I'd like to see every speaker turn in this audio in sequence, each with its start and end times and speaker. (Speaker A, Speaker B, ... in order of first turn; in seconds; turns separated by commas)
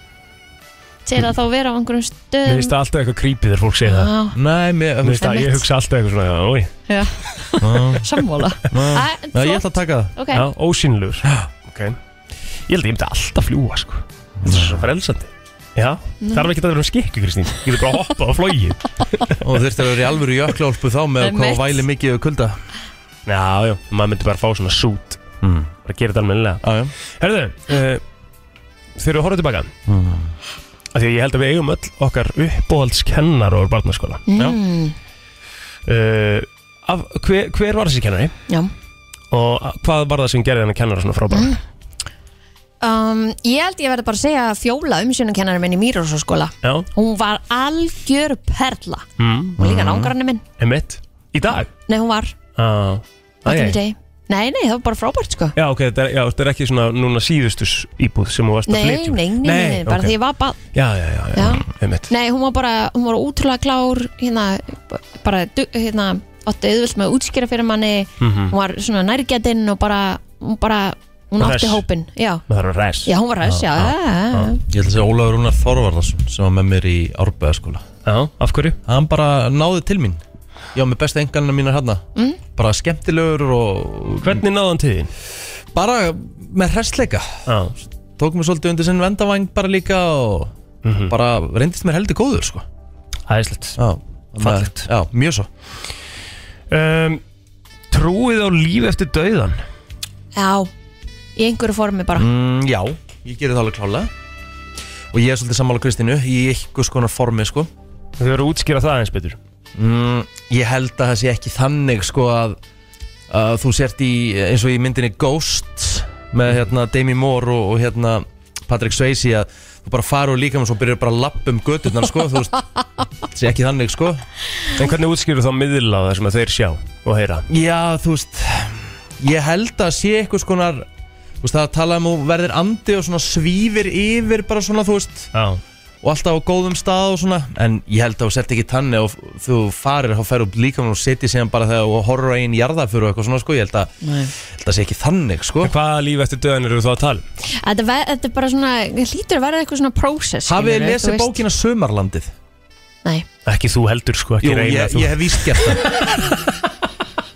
Speaker A: 1.1-2.7, Speaker B: 2.4-4.1, Speaker A: 3.8-4.3, Speaker C: 4.3-5.3, Speaker B: 5.0-6.7, Speaker A: 5.2-5.6, Speaker A: 6.9-10.4, Speaker C: 7.6-8.1, Speaker C: 8.7-10.1, Speaker B: 10.3-12.0, Speaker B: 12.7-19.4, Speaker C: 14.4-14.8, Speaker A: 16.2-16.5, Speaker C: 19.4-22.6, Speaker A: 21.2-21.8, Speaker B: 23.2-25.2, Speaker C: 25.4-25.7, Speaker B: 25.8-26.6, Speaker C: 26.6-26.9, Speaker B: 27.2-28.0, Speaker B: 29.0-29.7, Speaker C: 29.9-30.3, Speaker B: 30.9-34.2, Speaker A: 34.3-35.0, Speaker B: 35.9-38.3, Speaker B: 39.3-41.6, Speaker A: 41.3-41.6, Speaker A: 42.8-49.0, Speaker B: 46.6-46.9, Speaker B: 49.2-49.6, Speaker A: 49.6-50.4, Speaker C: 49.6-50.1, Speaker B: 50.6-51.7, Speaker A: 51.9-52.3, Speaker B: 52.6-53.8, Speaker A: 53.5-55.5, Speaker B: 55.5-60.2, Speaker A: 58.7-60.6, Speaker B: 60.7-62.1, Speaker A: 61.3-72.4, Speaker B: 68.2-68.5, Speaker B: 71.4-71.8, Speaker B: 72.5-73.1, Speaker A: 73.0-74.6, Speaker B: 73.8-74.5, Speaker C: 74.7-77.8, Speaker B: 78.0-78.8, Speaker C: 78.8-80.2, Speaker C: 80.7-84.4, Speaker B: 84.2-85.1, Speaker C: 85.7-87.5, Speaker B: 87.5-87.7, Speaker C: 88.2-90.5, Speaker B: 90.8-91.1, Speaker C: 91.1-92.6, Speaker B: 93.3-93.8, Speaker C: 93.8-95.5, Speaker B: 94.4-94.8, Speaker B: 96.7-97.2, Speaker B: 97.9-99.6, Speaker A: 100.3-100.7, Speaker A: 101.3-102.3, Speaker C: 102.2-104.1, Speaker C: 105.1-107.7, Speaker B: 108.2-109.4, Speaker C: 109.8-112.6, Speaker C: 113.3-124.2, Speaker B: 124.7-127.5, Speaker C: 127.5-130.9, Speaker C: 131.4-135.3, Speaker B: 135.3-135.6, Speaker C: 136.0-145.7, Speaker A: 144.0-144.3, Speaker B: 145.6-147.2, Speaker A: 147.4-151.4, Speaker C: 150.4-152.3, Speaker B: 153.4-155.7, Speaker C: 154.4-156.1